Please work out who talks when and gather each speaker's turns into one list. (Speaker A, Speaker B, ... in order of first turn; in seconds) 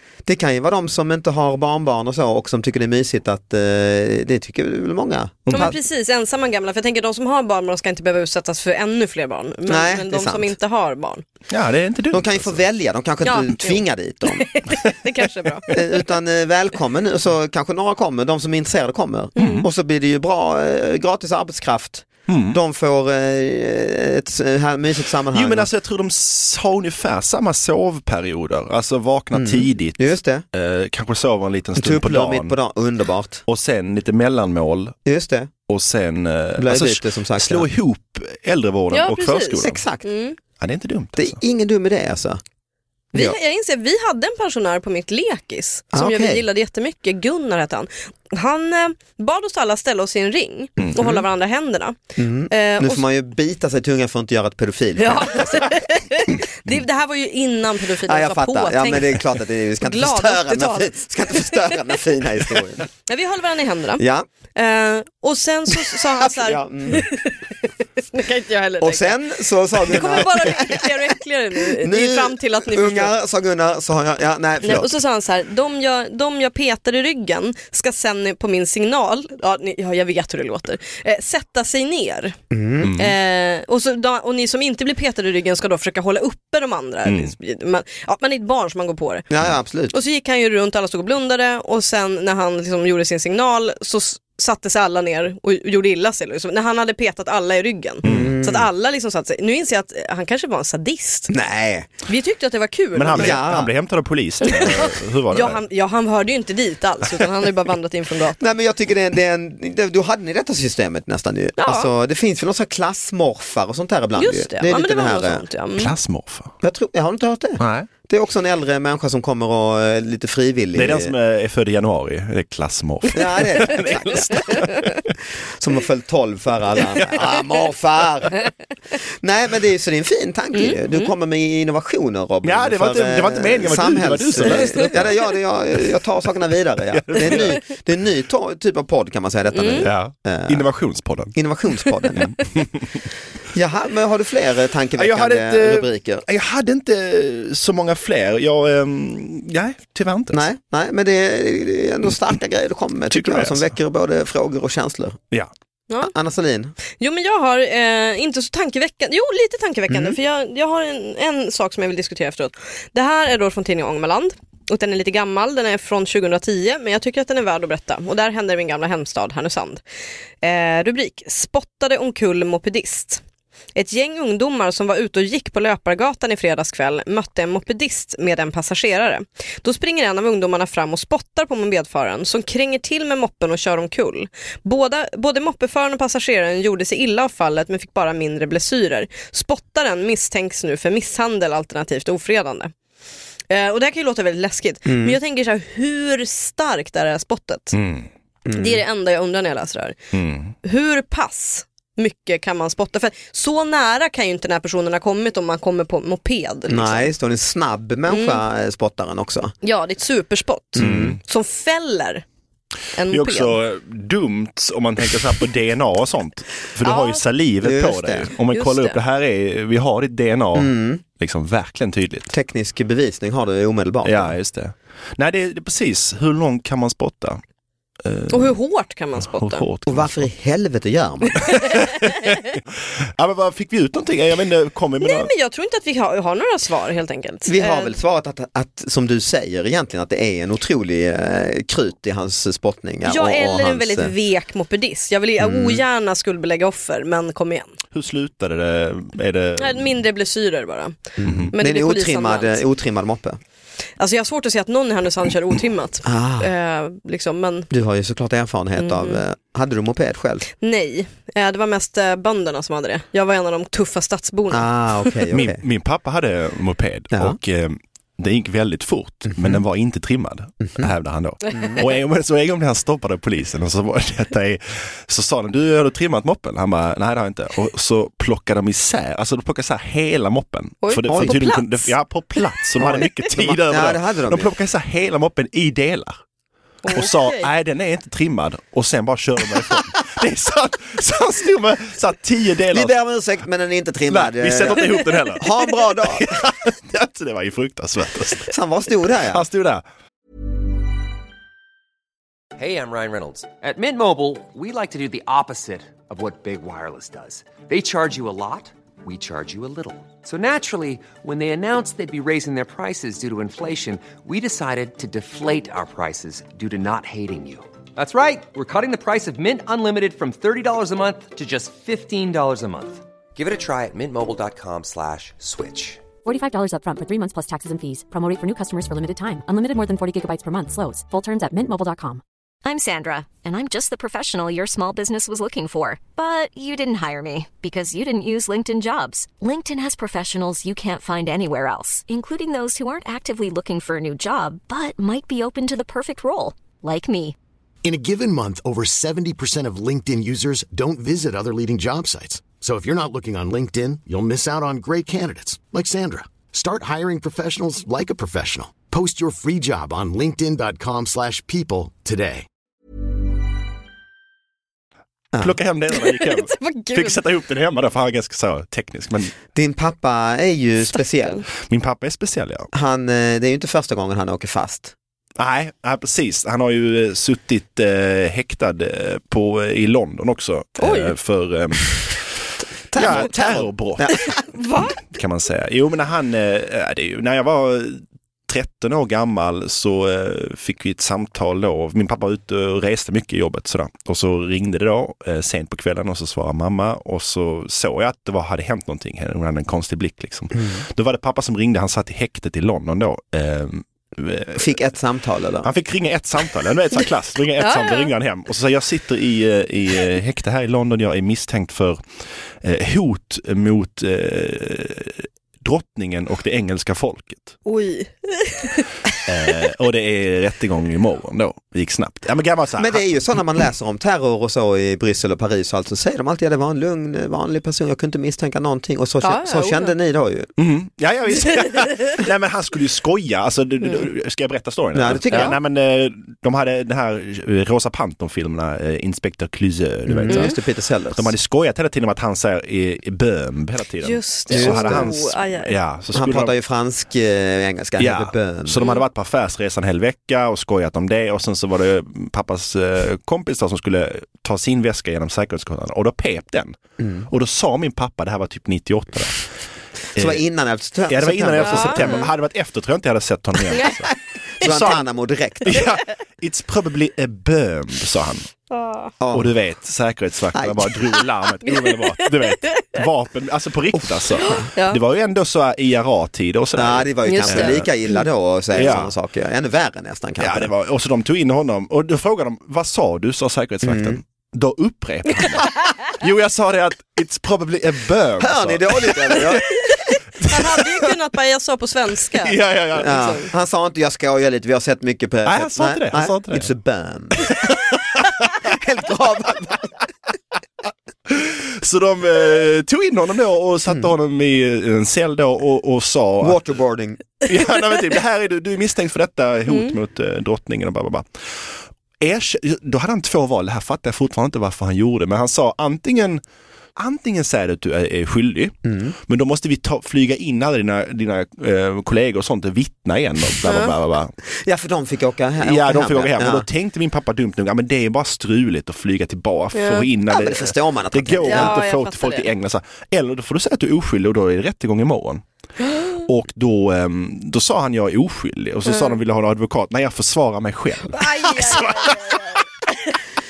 Speaker A: 0.2-5.8, 9.7-10.5, 12.1-14.6, 15.7-25.7, 29.3-30.4, 31.8-33.4, 35.0-35.5, 36.6-37.7, 39.6-40.1, 41.1-42.4, 45.9-46.5, 51.0-51.2, 52.2-55.6, 58.0-62.9, 64.0-64.3, 65.9-67.1, 68.8-71.1, 71.7-74.9, 82.5-82.9, 89.3-90.0, 98.0-98.7, 101.3-101.9, 103.1-103.7, 108.4-115.5, 116.6-121.1, 123.1-124.7, 125.5-128.3, 129.2-140.7, 141.3-142.3, 143.5-146.2, 150.3-155.2, 156.0-156.8, 159.9-160.2, 194.9-195.2, 198.5-198.8, 206.7-209.5, 210.8-211.2, 217.6-218.3, 220.5-221.0, 222.3-224.3, 229.9-231.5, 237.5-244.1, 245.4-245.8, 251.2-253.4, 256.0-256.5, 257.7-260.5, 264.5-265.6, 267.1-267.4, 269.3-269.6, 270.6-270.9, 271.5-271.8, 281.1-281.4, 282.8-284.5, 292.7-296.4, 298.5-299.4, 365.3-365.6, 369.5-371.4, 372.7-374.9, 382.9-384.4, 400.5-400.8, 404.5-405.7, 422.8-430.5, 434.9-435.6, 440.1-441.4, 444.5-445.1, 446.1-448.8, 457.0-457.3, 460.1-462.2, 464.6-465.9, 469.2-469.5, 470.5-470.9, 473.9-474.6, 476.8-480.7, 483.8-484.2, 488.4-489.8, 492.9-497.5, 498.6-499.9, 503.9-504.1, 506.4-507.2, 518.9-519.1, 524.6-526.7, 530.3-531.8
Speaker B: 5.5-5.8, 11.5-12.6, 19.4-19.7, 22.3-22.6, 25.3-32.5, 33.5-35.0, 35.7-39.8, 40.6-41.4, 50.8-51.1, 82.8-83.1, 87.0-87.3, 98.0-98.3, 103.0-105.6, 115.8-116.5, 117.6-117.9, 120.8-124.9, 132.4-135.1, 136.9-137.6, 139.8-141.3, 142.1-143.0, 145.0-150.4, 153.1-153.7, 197.7-198.1, 200.1-200.5, 210.8-211.2, 213.1-222.3, 224.0-227.4, 228.0-228.6, 229.2-230.2, 231.4-232.6, 233.2-235.3, 247.9-250.0, 251.2-251.5, 265.3-286.2, 286.9-292.9, 294.1-298.5, 299.3-299.8, 365.4-369.3, 371.6-372.7, 375.4-382.3, 383.0-384.3, 385.0-404.7, 405.6-412.1, 412.6-417.6, 419.3-423.1, 430.6-440.5, 441.1-446.5, 448.0-456.8, 457.3-459.5, 460.1-460.4, 461.1-465.0, 465.6-468.5, 469.3-477.9, 478.8-479.1, 480.4-489.6, 490.4-490.8, 492.4-493.4, 495.4-496.7, 497.4-498.6, 501.3-506.6, 507.4-516.4, 517.0-518.8, 519.3-524.3, 525.6-535.4, 536.2-542.6
Speaker C: 5.5-11.2, 13.2-15.7, 19.4-19.6, 38.9-40.4, 43.1-52.0, 52.5-53.0, 55.0-59.2, 59.8-61.9, 63.1-64.0, 64.5-67.4, 68.0-69.2, 69.9-73.1, 74.6-82.4, 83.0-89.2, 89.9-101.3, 102.0-103.4, 104.4-108.4, 111.6-111.9, 114.2-115.9, 124.6-124.8, 130.5-131.1, 139.5-139.9, 157.0-169.8, 170.4-173.2, 173.8-192.7, 193.5-197.8, 198.5-200.0, 200.6-207.1, 208.1-208.4, 209.6-212.2, 213.0-213.6, 216.8-217.2, 218.5-219.0, 228.3-229.7, 235.0-237.9, 243.0-247.8, 249.6-251.0, 251.5-252.6, 254.0-257.7, 258.8-259.2, 260.6-265.2, 271.5-271.8, 280.8-283.1, 286.8-287.5, 365.9-367.2, 371.0-371.4, 380.8-381.1, 384.5-385.0, 407.6-408.1, 417.6-418.9, 429.2-429.9, 435.3-435.6, 440.3-440.5, 444.0-445.8, 461.6-462.3, 468.7-469.1, 471.6-472.9, 474.4-475.0, 477.2-477.8, 490.4-493.5, 509.7-510.0, 523.6-523.9, 529.7-530.1, 531.4-532.5, 535.9-536.1, 538.9-539.2, 541.1-543.1
Speaker D: 302.6-326.1
Speaker E: 326.2-332.2
Speaker F: 332.6-347.4
Speaker G: 347.8-362.5